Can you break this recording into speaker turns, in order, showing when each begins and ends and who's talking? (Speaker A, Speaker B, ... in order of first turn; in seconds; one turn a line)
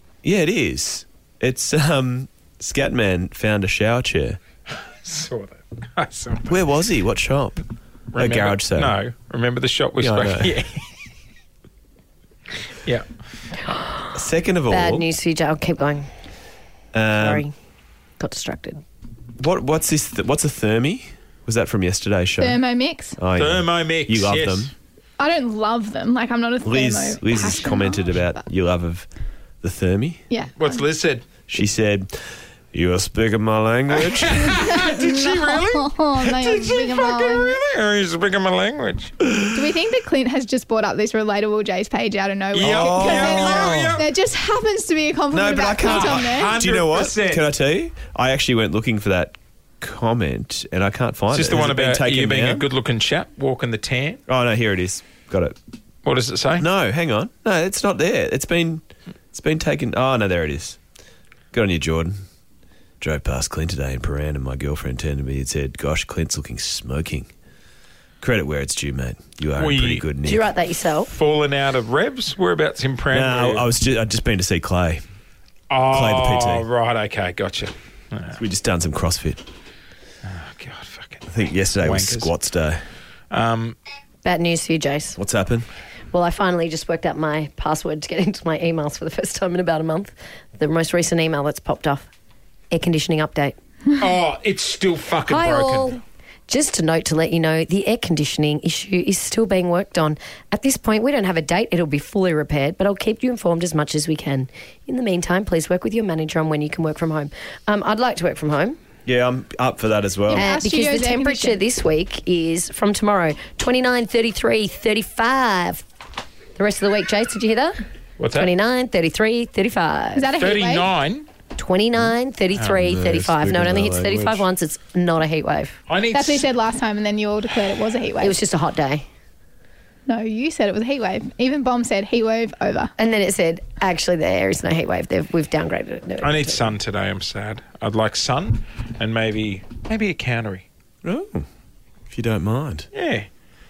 Speaker A: 0.2-4.4
Speaker B: 4.7-6.7
Speaker A: 6.5-7.6
Speaker A: 8.1-9.0
Speaker B: 8.1-10.8
Speaker A: 10.0-10.6
Speaker A: 14.1-15.1
Speaker C: 14.7-16.1
Speaker A: 16.9-17.5
Speaker C: 17.1-17.5
Speaker C: 18.2-18.8
Speaker A: 19.4-22.6
Speaker D: 22.4-23.2
Speaker A: 23.2-24.7
Speaker B: 23.4-24.7
Speaker D: 25.2-28.3
Speaker A: 26.6-29.1
Speaker A: 29.6-30.2
Speaker D: 30.3-30.8
Speaker B: 30.6-31.3
Speaker A: 31.5-32.1
Speaker A: 32.7-34.7
Speaker B: 33.9-39.1
Speaker D: 34.5-37.6
Speaker D: 39.5-46.6
Speaker B: 42.5-44.1
Speaker A: 42.6-44.0
Speaker A: 45.3-52.7
Speaker B: 45.8-47.5
Speaker B: 51.3-54.2
Speaker A: 54.3-55.6
Speaker B: 56.0-56.7
Speaker A: 56.6-60.8
Speaker A: 61.5-62.1
Speaker A: 63.0-67.3
Speaker A: 68.2-70.5
Speaker B: 69.6-70.1
Speaker C: 70.2-71.1
Speaker B: 71.1-73.7
Speaker A: 73.1-75.0
Speaker B: 75.7-78.4
Speaker A: 75.9-76.7
Speaker A: 78.4-79.5
Speaker B: 80.2-82.3
Speaker A: 81.3-82.8
Speaker B: 83.3-83.8
Speaker C: 84.2-85.2
Speaker A: 85.2-85.7
Speaker C: 86.1-92.1
Speaker C: 92.7-93.6
Speaker B: 94.0-96.0
Speaker C: 95.3-108.8
Speaker A: 109.1-110.5
Speaker D: 110.3-111.6
Speaker C: 110.3-115.8
Speaker C: 116.6-117.8
Speaker B: 118.2-118.5
Speaker C: 118.3-120.3
Speaker D: 120.2-120.9
Speaker B: 120.4-121.3
Speaker C: 121.6-125.8
Speaker A: 122.7-124.5
Speaker B: 125.9-126.5
Speaker D: 126.1-128.4
Speaker C: 128.2-129.1
Speaker D: 130.1-132.9
Speaker C: 133.0-136.7
Speaker B: 136.2-140.7
Speaker A: 141.0-141.5
Speaker A: 142.1-142.9
Speaker B: 142.9-143.3